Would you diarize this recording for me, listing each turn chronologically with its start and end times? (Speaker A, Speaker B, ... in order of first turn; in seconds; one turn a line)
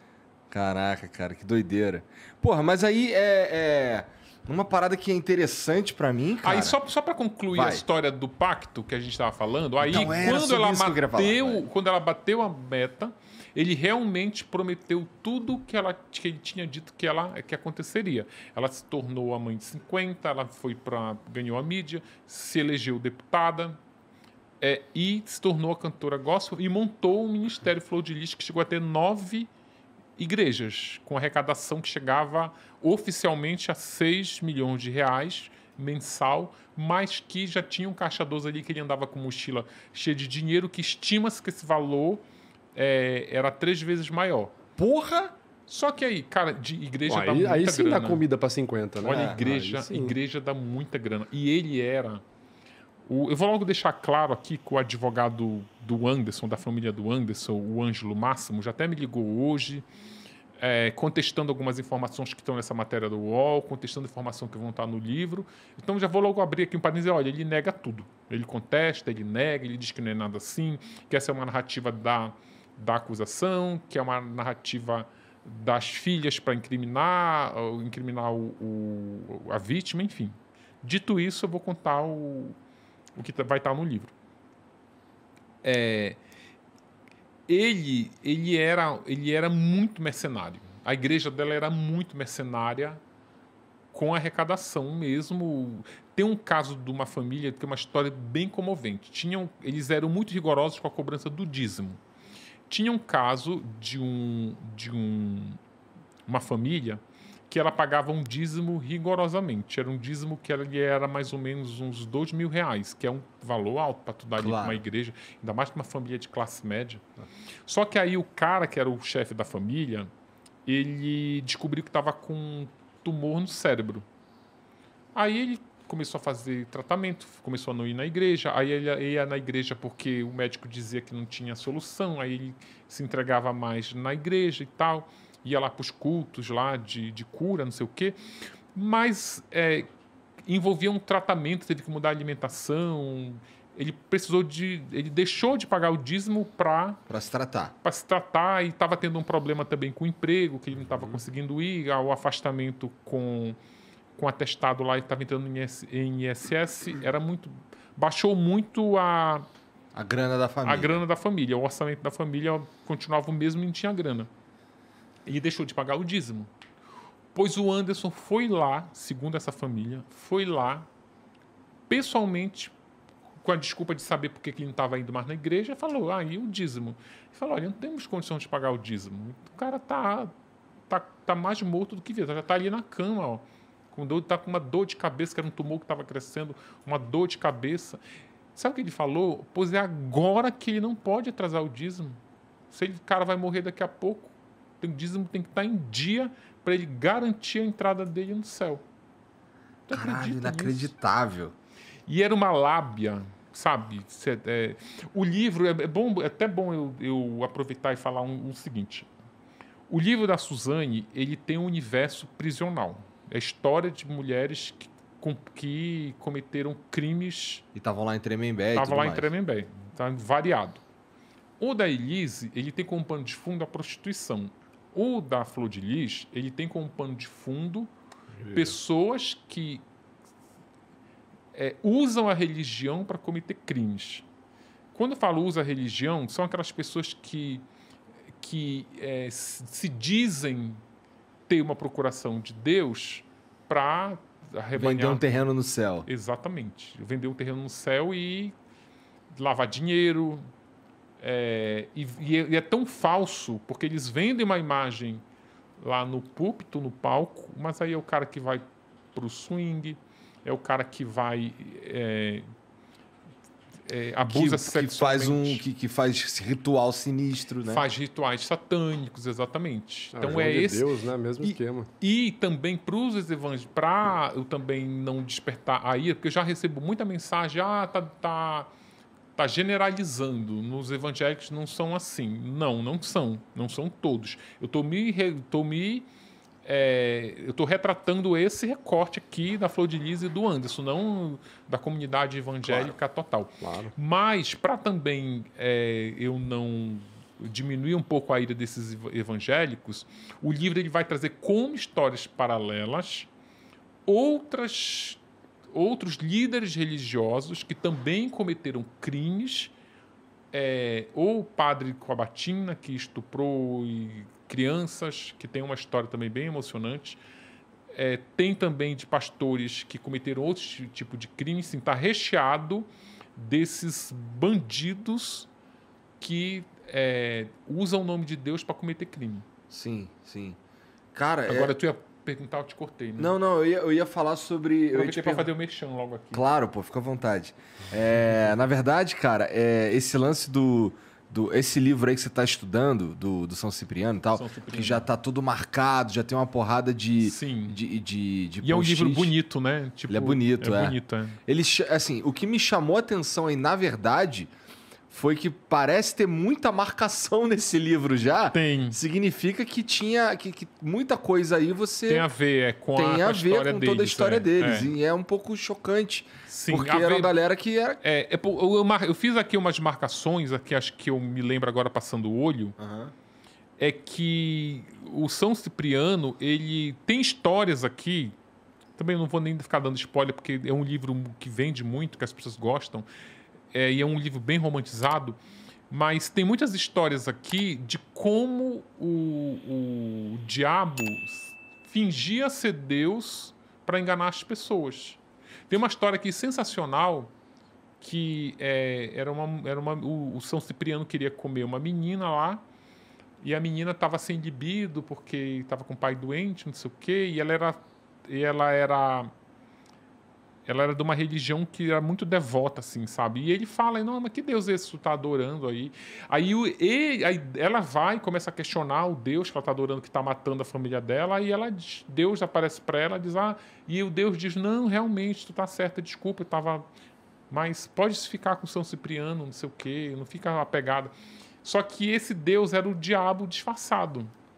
Speaker A: 0.5-6.8
Speaker B: 6.4-23.8
Speaker A: 7.5-7.8
Speaker A: 9.8-11.6
Speaker B: 24.6-29.5
Speaker B: 30.2-42.2
Speaker B: 42.8-44.5
Speaker A: 44.8-45.4
Speaker B: 45.7-48.2
Speaker C: 47.1-50.1
Speaker B: 49.0-52.2
Speaker A: 49.1-49.5
Speaker B: 53.1-59.9
Speaker B: 60.6-82.6
Speaker B: 83.2-84.1
Speaker B: 85.6-86.2
Speaker B: 87.5-93.0
Speaker B: 93.9-102.0
Speaker B: 102.7-105.6
Speaker B: 106.3-117.0
Speaker A: 114.4-114.8
Speaker B: 117.7-120.1
Speaker B: 120.7-124.0
Speaker B: 125.2-138.2
Speaker B: 138.8-139.9
Speaker B: 140.5-147.0
Speaker A: 147.1-147.8
Speaker B: 147.8-153.6
Speaker B: 154.2-159.5
Speaker A: 159.9-161.0
Speaker B: 160.7-164.3
Speaker B: 165.3-166.5
Speaker B: 167.3-170.9
Speaker B: 171.9-172.7
Speaker B: 173.4-180.3
Speaker B: 180.9-188.0
Speaker B: 188.6-192.2
Speaker B: 192.7-198.8
Speaker B: 199.9-200.9
Speaker A: 199.9-201.6
Speaker B: 202.1-209.1
Speaker B: 209.9-217.6
Speaker A: 217.7-219.3
Speaker B: 218.8-220.8
Speaker B: 221.6-227.9
Speaker C: 228.4-228.7
Speaker B: 228.5-229.8
Speaker B: 231.5-234.3
Speaker B: 234.9-237.6
Speaker B: 238.4-240.8
Speaker B: 241.5-245.3
Speaker A: 244.8-246.1
Speaker B: 246.1-248.6
Speaker B: 249.3-250.4
Speaker B: 251.2-255.2
Speaker B: 255.8-262.5
Speaker B: 263.9-265.6
Speaker A: 264.3-267.9
Speaker B: 267.6-270.9
Speaker C: 270.1-271.9
Speaker B: 271.4-278.7
Speaker B: 279.4-286.1
Speaker B: 286.6-303.3
Speaker A: 292.6-292.9
Speaker C: 293.6-293.9
Speaker B: 304.1-305.2
Speaker B: 305.7-309.7
Speaker B: 310.5-317.2
Speaker B: 317.9-325.5
Speaker B: 326.2-329.5
Speaker A: 329.7-330.6
Speaker A: 331.1-331.7
Speaker B: 331.5-333.4
Speaker A: 333.2-335.5
Speaker B: 334.9-336.4
Speaker A: 336.3-349.3
Speaker B: 344.3-345.1
Speaker B: 347.2-347.8
Speaker B: 348.6-351.4
Speaker A: 350.1-354.5
Speaker A: 355.1-362.3
Speaker B: 358.5-359.0
Speaker B: 362.1-364.9
Speaker A: 362.9-368.0
Speaker B: 366.5-367.3
Speaker B: 368.0-372.8
Speaker A: 372.8-373.1
Speaker B: 373.8-378.4
Speaker B: 379.0-383.1
Speaker B: 383.7-385.4
Speaker B: 385.9-397.3
Speaker B: 398.0-402.6
Speaker B: 403.4-409.3
Speaker B: 410.7-426.9
Speaker B: 427.5-431.1
Speaker B: 431.6-434.3